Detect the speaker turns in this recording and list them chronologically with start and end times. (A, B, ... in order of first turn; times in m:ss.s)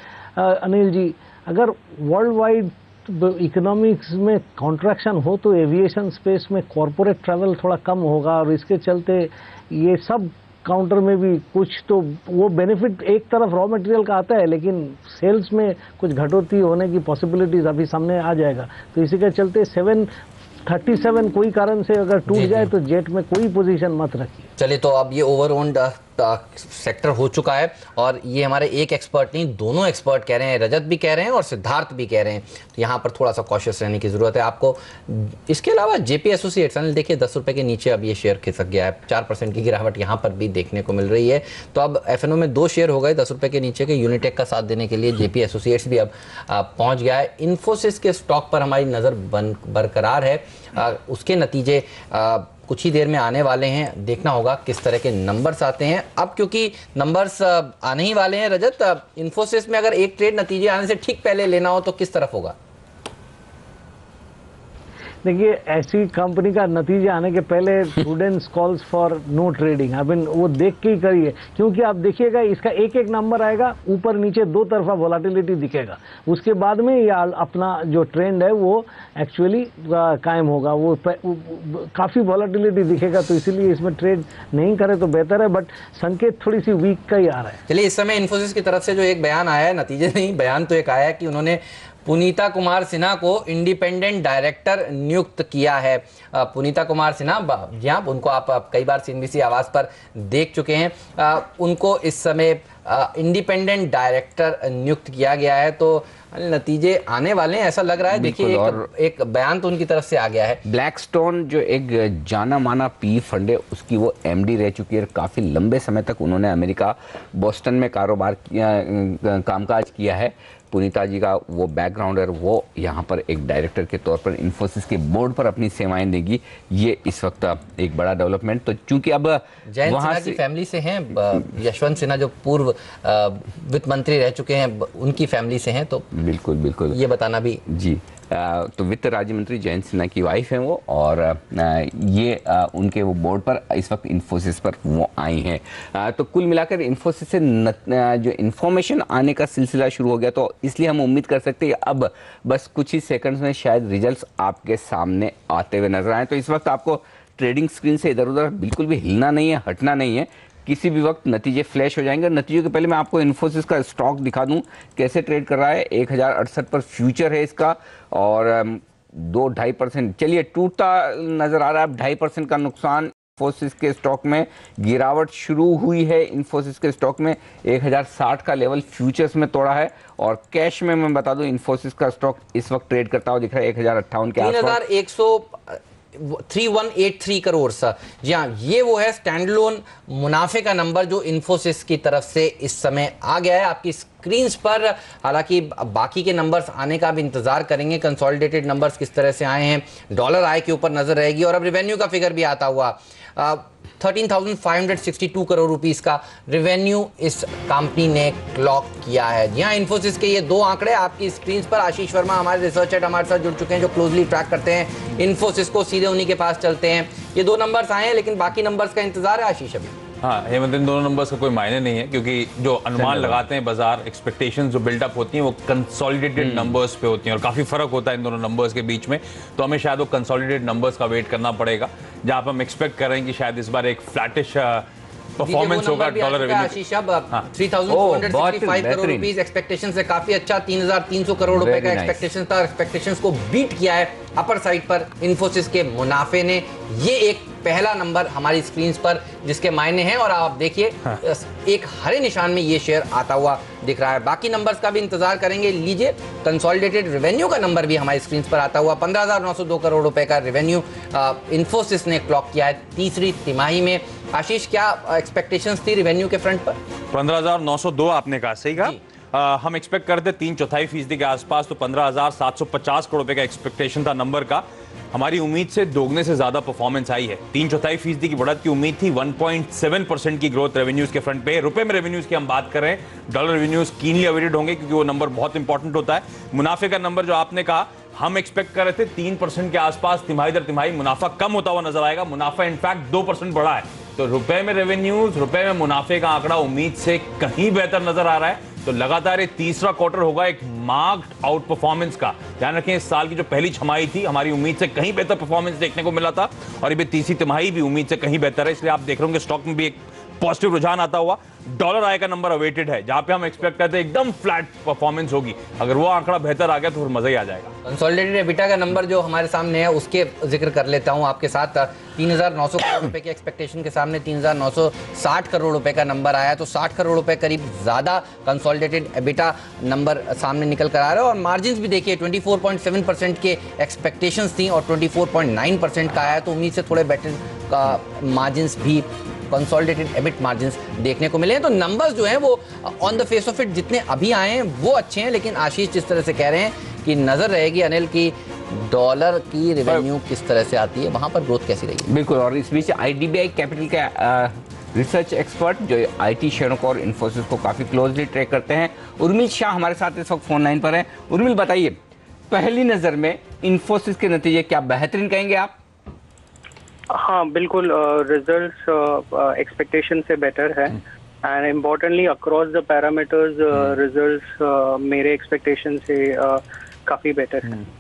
0:00.4-0:20.1 A
0:20.7-0:24.5 A
0:22.3-0:22.7 B
0:24.6-1:02.6 B
1:05.2-1:27.6 A
1:27.7-1:50.6 B
1:48.1-1:48.9 C
1:50.6-2:10.4 C
2:09.7-2:16.1 B
2:16.1-2:17.0 C
2:16.9-2:17.6 B
2:17.7-3:04.8 C
3:04.4-3:40.0 B
3:40.2-3:54.9 D
3:43.0-3:43.4 C
3:46.4-3:46.8 C
3:55.4-3:56.8 D
3:55.4-4:26.8 B
3:57.9-3:59.3 C
4:01.5-4:02.3 C
4:27.1-5:17.7 D
5:17.8-5:52.1 B
5:52.1-6:02.0 C
6:02.5-6:05.8 C
6:07.1-6:17.9 E